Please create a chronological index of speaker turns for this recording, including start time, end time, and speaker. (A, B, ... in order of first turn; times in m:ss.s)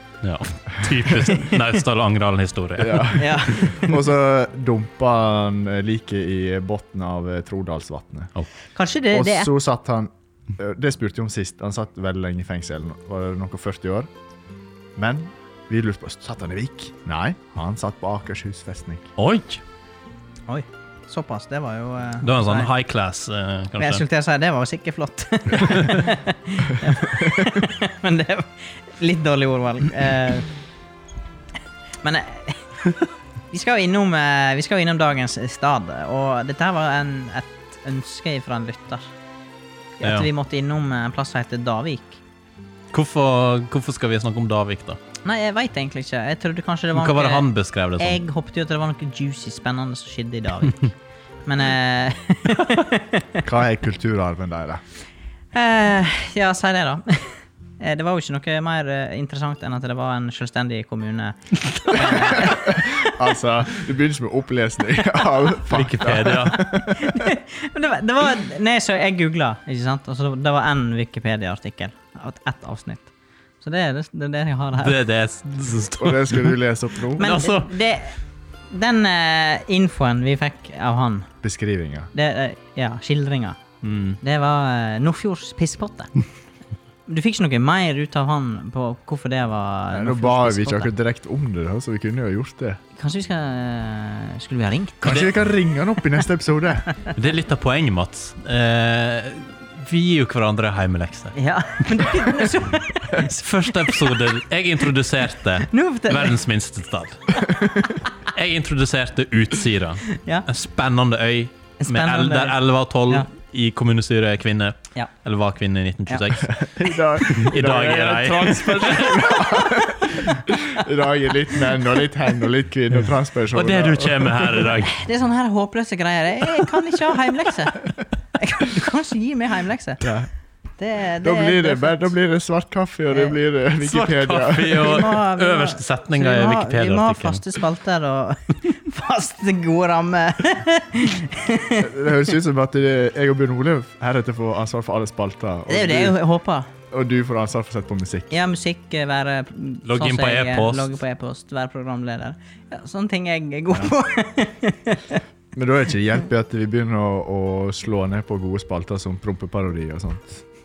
0:00.2-0:03.9 A
0:02.8-0:08.3 B
0:03.2-0:03.8 C
0:08.8-0:09.5 C
0:09.1-0:14.1 B
0:15.0-0:19.1 B
0:19.2-0:19.6 A
0:20.5-0:22.7 C
0:22.2-0:24.0 A
0:23.8-0:30.5 C
0:32.0-0:32.6 C
0:33.5-0:39.1 C
0:40.0-0:42.2 C
0:40.0-0:40.3 A
0:42.9-0:45.0 A
0:45.2-0:50.9 C
0:46.9-0:48.2 A
0:51.5-0:53.4 C
0:53.4-0:54.8 B
0:55.5-1:03.2 C
1:01.8-1:02.3 A
1:02.1-1:07.3 B
1:05.7-1:06.7 A
1:06.5-1:13.1 C
1:13.6-1:15.0 C
1:14.8-1:16.6 A
1:16.0-1:17.3 B
1:17.1-1:17.7 A
1:17.2-1:18.2 C
1:18.7-1:21.3 C
1:21.4-1:22.1 B
1:22.1-1:23.6 C
1:23.8-1:24.2 A
1:24.2-1:26.1 C
1:27.1-1:30.9 C
1:29.9-1:32.8 B
1:33.0-1:35.3 C
1:35.0-1:36.9 B
1:37.1-1:41.4 A
1:41.3-1:44.2 C
1:42.0-1:42.3 A
1:43.1-1:47.4 A
1:45.7-1:46.4 C
1:48.2-1:56.6 A
1:50.2-1:50.5 C
1:51.8-1:52.6 C
1:56.5-2:04.7 B
1:57.2-1:59.1 A
1:58.9-2:00.1 C
2:03.5-2:05.0 A
2:04.9-2:10.1 C
2:10.0-2:10.3 B
2:10.8-2:12.1 C
2:11.2-2:15.0 B
2:13.8-2:17.4 A
2:14.7-2:22.0 C
2:21.8-2:26.2 B
2:25.7-2:26.7 C
2:26.9-2:28.3 B
2:28.3-2:35.2 C
2:29.9-2:30.9 A
2:35.5-2:40.4 B